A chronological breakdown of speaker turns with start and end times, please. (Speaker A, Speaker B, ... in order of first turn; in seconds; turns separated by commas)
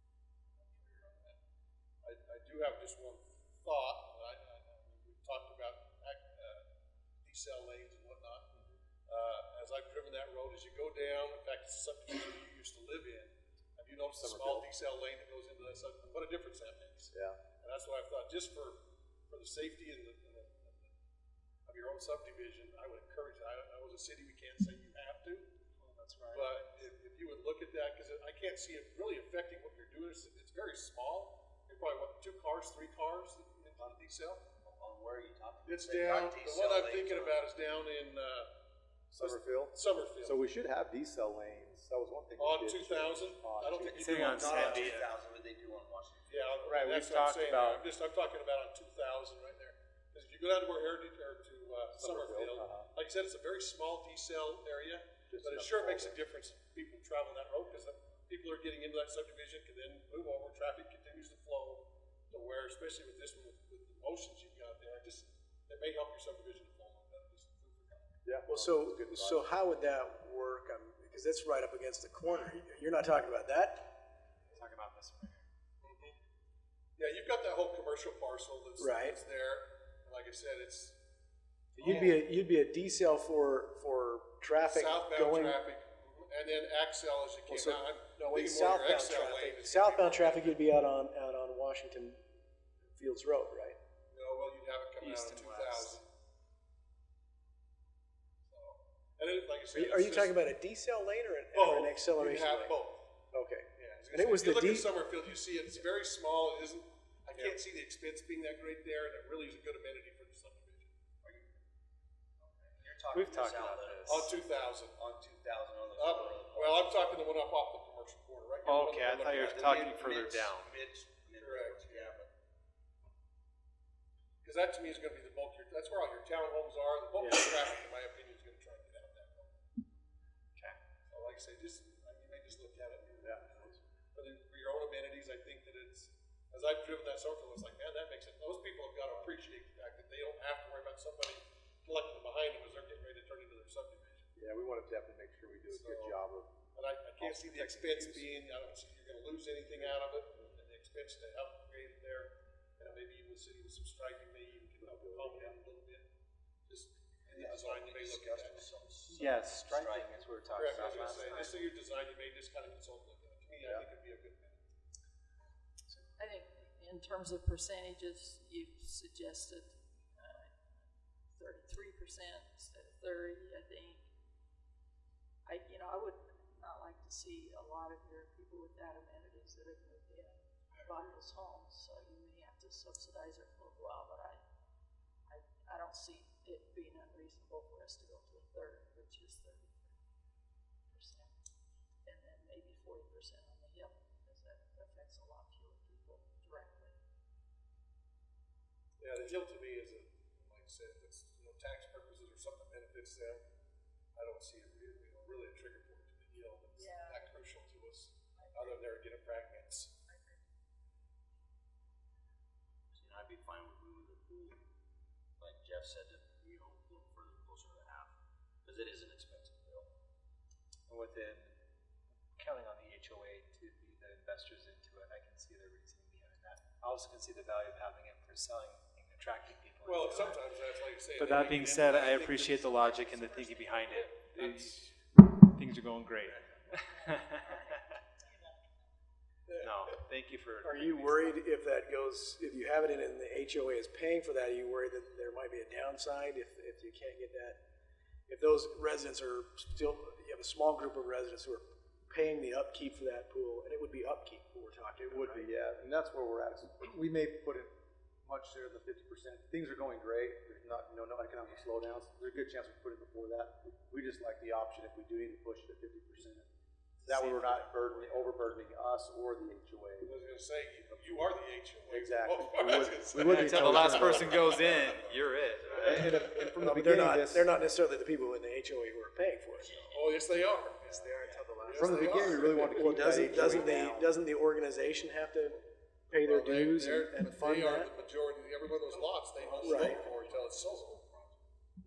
Speaker A: 0.5-1.4, Speaker A: 2.0-6.7, Speaker A: 7.2-8.5, Speaker A: 9.1-20.9, Speaker B: 14.2-14.7, Speaker B: 17.1-17.4, Speaker A: 21.6-25.5, Speaker C: 25.8-26.6, Speaker A: 26.3-34.4, Speaker D: 34.6-37.4, Speaker A: 35.6-38.5, Speaker B: 39.1-44.3, Speaker A: 39.2-40.4, Speaker A: 42.4-45.0, Speaker D: 43.8-46.7, Speaker C: 43.9-45.1, Speaker A: 46.3-68.1, Speaker C: 46.7-47.8, Speaker B: 51.9-52.9, Speaker B: 55.3-56.2, Speaker B: 68.2-69.5, Speaker E: 68.5-73.8, Speaker C: 74.5-75.5, Speaker A: 75.8-76.2, Speaker A: 77.0-81.0, Speaker E: 78.8-79.2, Speaker A: 81.8-82.2, Speaker E: 81.8-85.6, Speaker A: 84.7-90.6, Speaker E: 87.5-92.2, Speaker E: 92.9-93.8, Speaker A: 94.1-96.0, Speaker C: 95.0-96.0, Speaker A: 98.5-100.4, Speaker E: 99.7-102.8, Speaker A: 101.5-103.1, Speaker E: 103.3-104.9, Speaker A: 103.7-110.9, Speaker D: 111.2-111.6, Speaker D: 112.4-117.2, Speaker C: 113.1-114.3, Speaker A: 114.0-115.0, Speaker A: 115.9-120.0, Speaker C: 118.6-120.7, Speaker D: 119.3-122.3, Speaker A: 121.3-122.2, Speaker A: 124.4-129.6, Speaker A: 131.1-144.3, Speaker B: 133.2-133.8, Speaker B: 144.3-146.5, Speaker A: 145.7-146.2, Speaker A: 146.7-156.1, Speaker B: 147.2-148.3, Speaker B: 154.8-155.5, Speaker A: 156.7-158.8, Speaker D: 157.3-161.5, Speaker C: 159.1-161.5, Speaker A: 160.5-164.7, Speaker F: 166.2-174.1, Speaker F: 175.4-184.4, Speaker F: 185.2-190.0, Speaker F: 190.9-191.3, Speaker F: 192.0-197.0, Speaker A: 199.0-203.4, Speaker A: 204.1-209.9, Speaker F: 206.7-207.4, Speaker F: 208.3-208.8, Speaker F: 210.1-210.4, Speaker D: 212.9-214.6, Speaker D: 215.4-219.9, Speaker C: 220.9-221.6, Speaker C: 222.3-230.4, Speaker A: 229.8-233.1, Speaker C: 231.1-237.9, Speaker F: 233.3-234.1, Speaker A: 234.3-234.8, Speaker C: 239.6-241.4, Speaker E: 240.6-247.6, Speaker E: 248.3-255.4, Speaker B: 255.1-257.7, Speaker B: 258.2-266.5, Speaker C: 267.0-267.8, Speaker B: 267.0-270.1, Speaker A: 270.0-276.5, Speaker B: 271.9-274.8, Speaker C: 273.2-276.1, Speaker D: 275.6-276.1, Speaker B: 275.7-277.5, Speaker E: 276.6-279.8, Speaker A: 279.7-281.0, Speaker E: 280.9-285.6, Speaker A: 281.6-283.2, Speaker B: 281.7-284.1, Speaker E: 286.1-287.9, Speaker A: 286.2-291.4, Speaker D: 289.6-289.9, Speaker E: 289.6-290.0